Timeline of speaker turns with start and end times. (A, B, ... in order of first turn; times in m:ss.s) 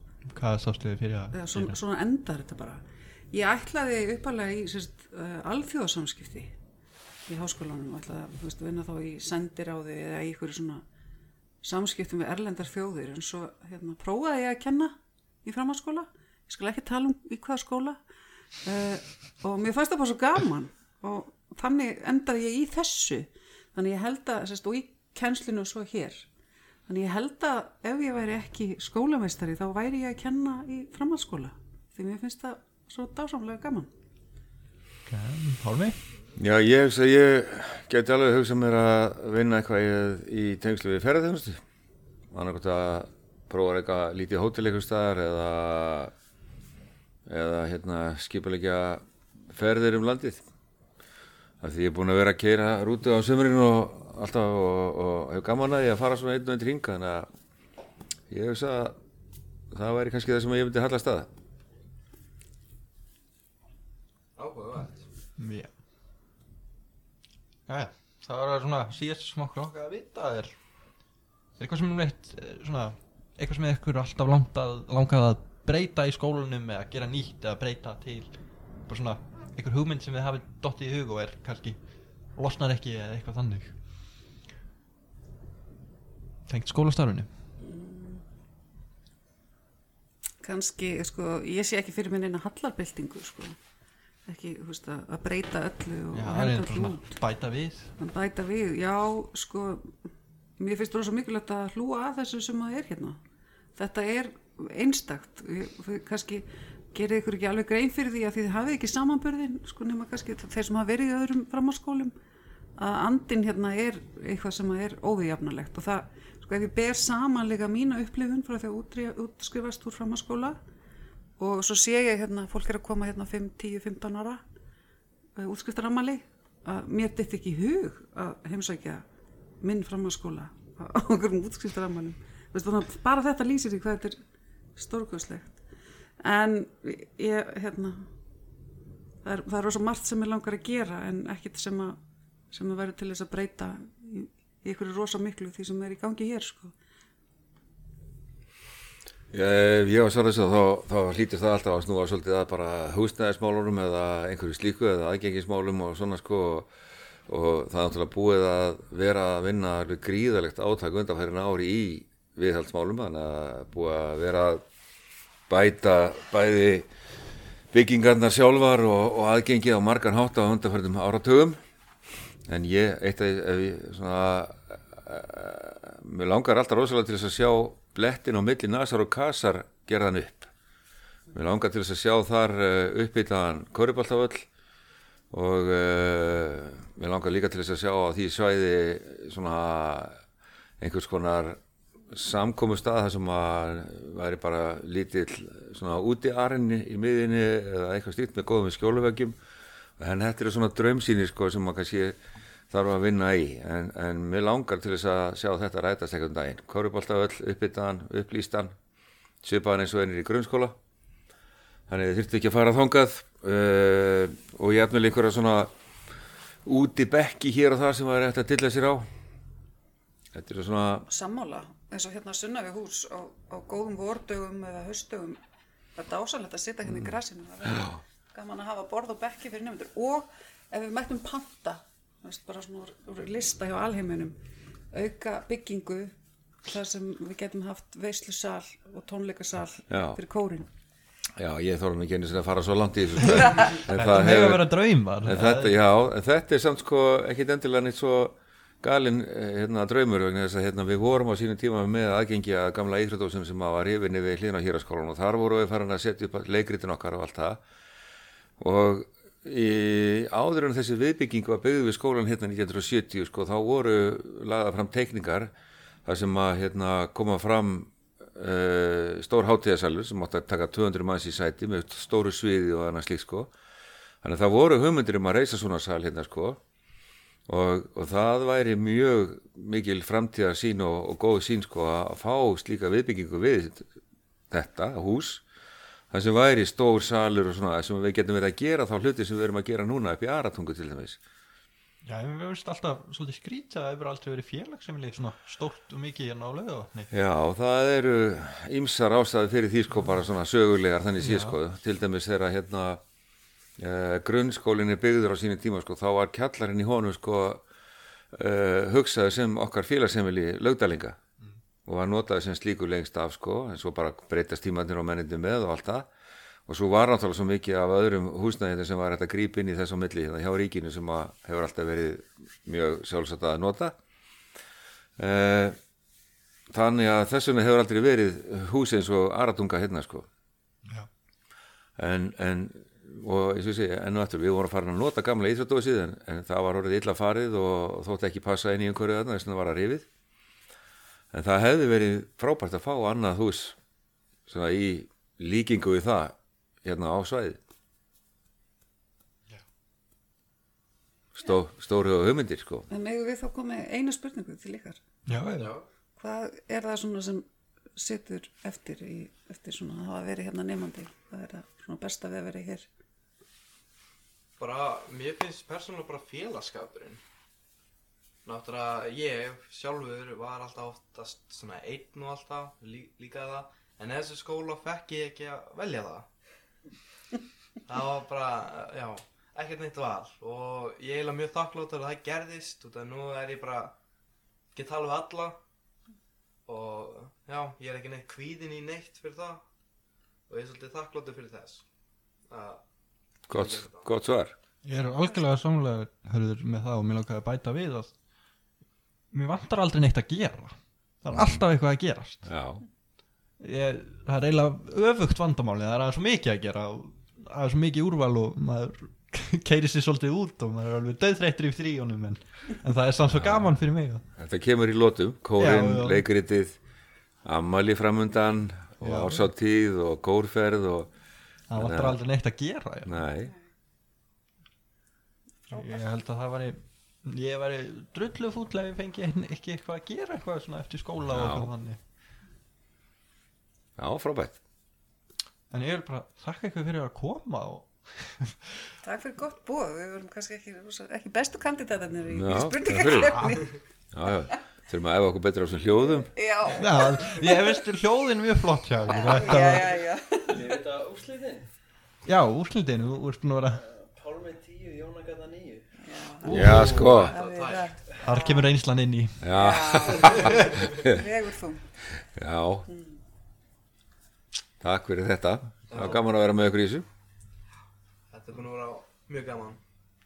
0:00.3-0:01.8 A
0:01.3-0:06.6 B
0:07.3-0:10.8 B
0:11.6-0:18.0 B
0:18.6-0:26.3 B
0:26.9-0:33.9 B
0:35.1-0:36.0 A
0:36.4-0:41.6 C
0:42.3-0:46.1 C
0:47.3-0:50.4 C
0:51.6-0:57.3 C
0:58.3-0:59.0 C
0:59.7-1:01.3 C
1:04.4-1:05.0 D
1:05.4-1:05.7 A
1:07.7-1:10.6 A
1:11.6-1:18.3 A
1:18.9-1:21.8 A
1:22.4-1:23.8 A
1:26.5-1:27.3 A
1:27.6-1:28.2 B
1:30.4-1:33.6 B
1:34.3-1:37.1 B
1:36.1-1:37.9 A
1:38.0-1:39.9 B
1:40.6-1:43.2 B
1:43.8-1:52.1 B
1:52.8-2:00.6 B
2:01.4-2:04.4 B
2:05.4-2:09.0 B
2:09.6-2:14.2 B
2:14.8-2:15.6 B
2:16.2-2:18.1 B
2:19.2-2:22.0 B
2:22.5-2:26.7 B
2:29.3-2:36.7 C
2:37.3-2:44.6 C
2:45.5-2:46.9 C
2:47.7-2:51.6 C
2:52.5-3:00.5 C
3:01.3-3:04.5 C
3:05.3-3:10.2 C
3:10.8-3:11.6 C
3:12.1-3:19.4 C
3:20.0-3:22.2 C
3:22.7-3:28.8 C
3:29.4-3:30.8 C
3:31.9-3:35.7 C
3:36.6-3:39.1 C
3:40.3-3:41.1 C
3:41.1-3:45.4 B
3:45.9-3:54.4 B
3:46.9-3:47.1 C
3:47.6-3:48.0 C
3:54.9-3:56.1 B
3:56.6-4:00.7 B
3:59.9-4:00.2 C
4:01.4-4:17.6 C
4:03.8-4:05.8 A
4:18.6-4:25.5 C
4:26.1-4:33.5 C
4:34.2-4:36.6 C
4:37.5-4:43.9 C
4:44.5-4:45.4 C
4:46.1-4:51.2 C
4:52.0-4:57.1 A
4:57.1-5:03.0 C
5:01.2-5:01.6 A
5:03.8-5:07.6 C
5:08.3-5:11.2 C
5:11.9-5:16.1 C
5:16.7-5:24.0 C
5:25.2-5:25.8 C
5:26.7-5:30.3 C
5:32.0-5:40.1 C
5:41.3-5:43.8 C
5:44.5-5:47.6 C
5:51.4-5:52.9 C
5:52.9-5:55.0 B
5:55.3-5:55.8 A
5:55.6-5:55.8 D
5:56.2-6:02.9 B
6:04.6-6:07.2 D
6:08.4-6:16.3 D
6:17.9-6:24.0 D
6:24.7-6:25.6 D
6:26.6-6:29.6 D
6:30.5-6:31.8 D
6:32.5-6:32.8 D
6:33.5-6:34.1 D
6:33.5-6:34.5 C
6:34.8-6:38.1 A
6:39.3-6:42.5 A
6:41.3-6:41.6 C
6:42.4-6:42.8 C
6:43.6-6:54.2 A
6:53.3-6:53.8 C
6:54.4-6:56.8 C
6:55.6-6:56.2 A
6:57.4-7:01.1 C
6:59.0-6:59.5 A
7:01.7-7:03.2 A
7:01.7-7:02.2 C
7:03.1-7:03.5 C
7:05.7-7:12.0 A
7:05.7-7:06.0 B
7:11.3-7:11.7 C
7:14.0-7:14.6 C
7:15.7-7:18.6 A
7:19.0-7:23.8 B
7:22.3-7:23.6 C
7:23.3-7:23.6 A
7:24.1-7:26.3 C
7:26.3-7:27.8 B
7:26.8-7:30.0 A
7:29.1-7:30.8 B
7:30.5-7:31.7 E
7:32.2-7:33.8 A
7:33.8-7:35.9 E
7:36.0-7:38.7 B
7:36.5-7:37.0 A
7:36.5-7:37.9 D
7:36.5-7:37.4 C
7:38.2-7:39.5 A
7:39.4-7:41.2 C
7:39.5-7:41.8 B
7:42.3-7:42.9 C
7:42.9-7:43.2 B
7:44.8-7:47.1 C
7:45.9-7:46.2 D
7:48.3-7:49.8 D